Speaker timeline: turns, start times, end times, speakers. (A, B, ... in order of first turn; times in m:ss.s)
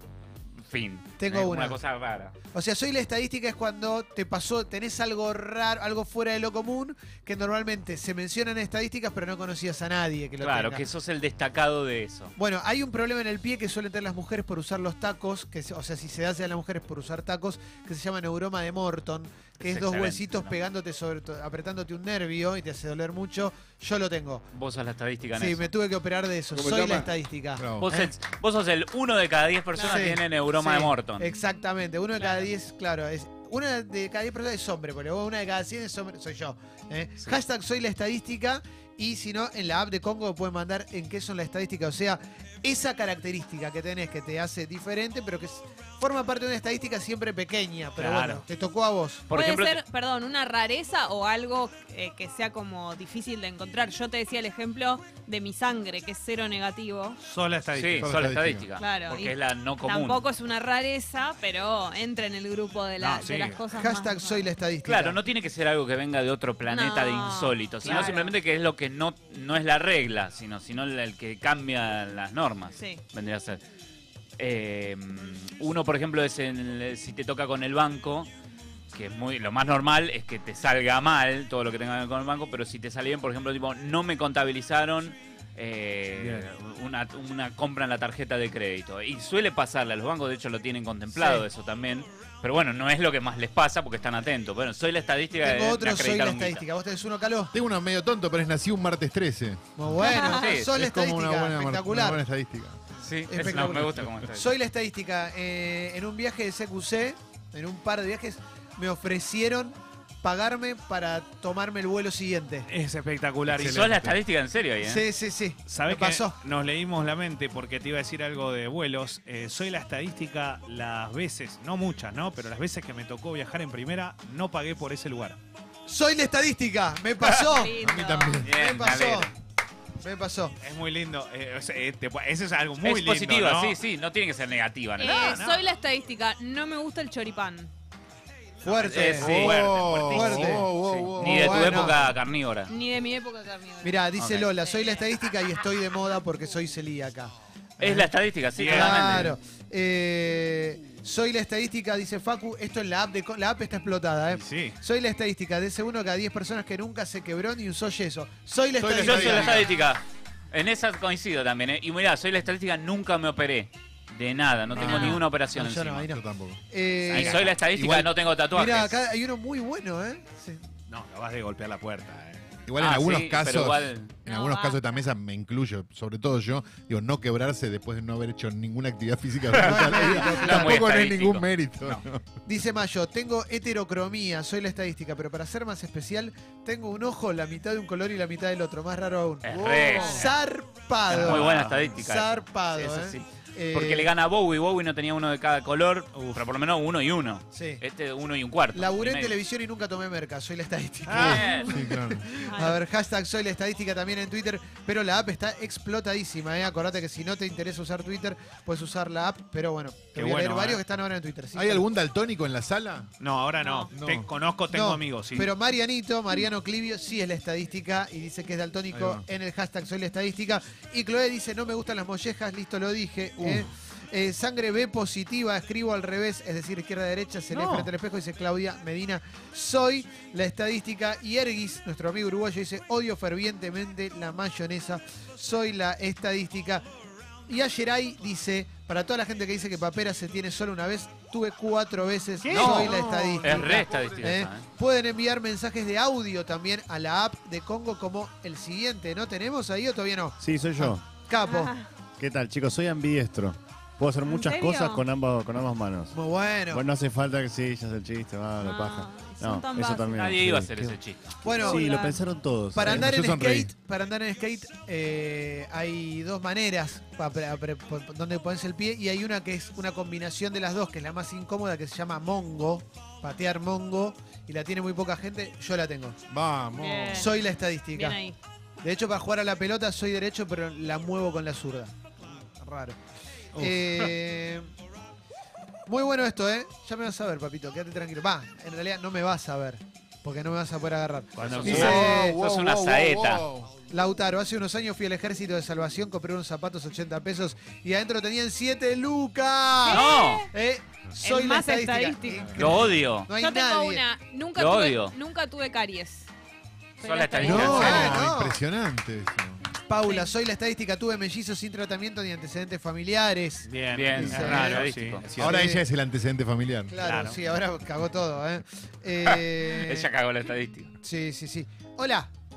0:00.6-0:02.4 A
0:01.2-0:01.8 B
0:02.5-0:10.8 B
0:10.4-0:12.3 A
0:12.4-0:24.5 B
0:19.6-0:20.6 A
0:24.5-0:25.7 A
0:25.3-0:28.1 B
0:26.5-0:27.8 C
0:27.8-0:31.3 A
0:29.7-0:30.0 D
0:29.8-0:49.3 B
0:32.2-0:32.4 D
0:48.0-0:48.4 E
0:49.3-0:49.8 A
0:49.3-0:57.2 D
0:57.2-0:58.1 E
0:57.7-1:00.2 A
0:58.0-0:58.7 C
0:58.8-1:04.5 D
1:03.0-1:03.6 E
1:03.8-1:05.2 B
1:04.8-1:13.6 A
1:06.7-1:08.3 D
1:14.4-1:18.3 A
1:18.9-1:36.6 A
1:26.2-1:26.5 E
1:31.1-1:31.5 B
1:35.4-1:37.5 B
1:37.5-1:42.8 C
1:39.8-1:42.2 B
1:40.0-1:40.5 D
1:40.1-1:40.7 A
1:43.0-1:44.5 A
1:43.3-1:52.7 B
1:52.7-1:53.8 E
1:53.5-1:54.2 C
1:53.5-1:55.0 A
1:54.8-1:56.4 B
1:55.6-2:05.4 E
2:05.9-2:07.8 B
2:07.4-2:08.4 D
2:07.8-2:08.5 C
2:08.4-2:09.3 A
2:08.5-2:09.3 B
2:10.0-2:10.6 B
2:10.6-2:13.8 E
2:12.8-2:15.4 A
2:15.0-2:17.7 D
2:15.1-2:15.6 E
2:18.6-2:22.1 B
2:18.7-2:22.7 A
2:19.2-2:19.9 E
2:19.2-2:21.9 C
2:22.7-2:24.0 D
2:23.8-2:39.7 B
2:24.2-2:24.5 A
2:24.6-2:25.1 D
2:27.8-2:29.3 A
2:28.6-2:29.3 E
2:34.3-2:34.8 E
2:38.8-2:39.7 C
2:38.9-2:46.0 A
2:44.7-2:45.2 D
2:44.7-2:45.2 C
2:45.5-2:47.5 B
2:46.1-2:48.1 C
2:47.1-2:49.0 A
2:48.5-2:50.6 B
2:50.9-2:52.5 E
2:52.7-3:02.2 C
2:52.8-2:54.2 A
2:54.2-2:54.8 D
2:59.5-3:02.0 A
2:59.6-3:00.8 B
3:02.4-3:09.4 B
3:09.4-3:10.3 A
3:09.5-3:10.2 C
3:10.0-3:14.1 B
3:11.1-3:19.4 A
3:11.2-3:11.9 E
3:16.1-3:16.5 E
3:17.5-3:17.8 B
3:18.7-3:31.8 B
3:21.1-3:21.4 E
3:21.1-3:22.3 C
3:21.2-3:21.7 A
3:22.5-3:22.8 D
3:30.1-3:30.8 E
3:31.5-3:33.1 C
3:33.2-3:35.5 E
3:33.6-3:33.9 D
3:33.9-3:34.3 C
3:34.7-3:56.8 B
3:38.9-3:39.2 C
3:43.4-3:43.7 C
3:57.5-4:11.7 B
4:02.4-4:04.2 E
4:02.5-4:04.6 A
4:10.4-4:11.0 F
4:11.4-4:11.9 D
4:12.2-4:16.2 F
4:14.2-4:15.0 D
4:16.1-4:16.8 B
4:16.7-4:23.1 F
4:18.6-4:20.2 D
4:20.1-4:21.4 A
4:21.4-4:22.0 B
4:21.5-4:22.2 D
4:22.7-4:36.2 B
4:22.8-4:23.7 C
4:36.3-4:37.3 C
4:36.8-4:37.4 D
4:37.1-4:38.2 B
4:37.9-4:38.4 D
4:38.8-4:43.0 B
4:43.5-4:44.1 E
4:43.5-4:44.7 B
4:45.9-4:52.4 B
4:51.4-4:52.0 E
4:51.4-4:53.4 A
4:51.6-4:53.7 C
4:53.9-5:04.0 B
4:59.8-5:00.5 D
4:59.9-5:00.4 A
5:01.2-5:06.3 D
5:02.6-5:03.3 A
5:04.6-5:05.1 A
5:07.0-5:08.2 D
5:07.0-5:08.2 A
5:07.4-5:08.6 B
5:07.4-5:09.7 C
5:09.9-5:15.8 B
5:10.0-5:10.3 D
5:13.6-5:15.6 E
5:13.9-5:15.2 A
5:14.2-5:14.5 C
5:15.4-5:16.9 C
5:16.9-5:20.1 B
5:17.0-5:17.4 E
5:19.2-5:20.9 A
5:21.0-5:22.3 B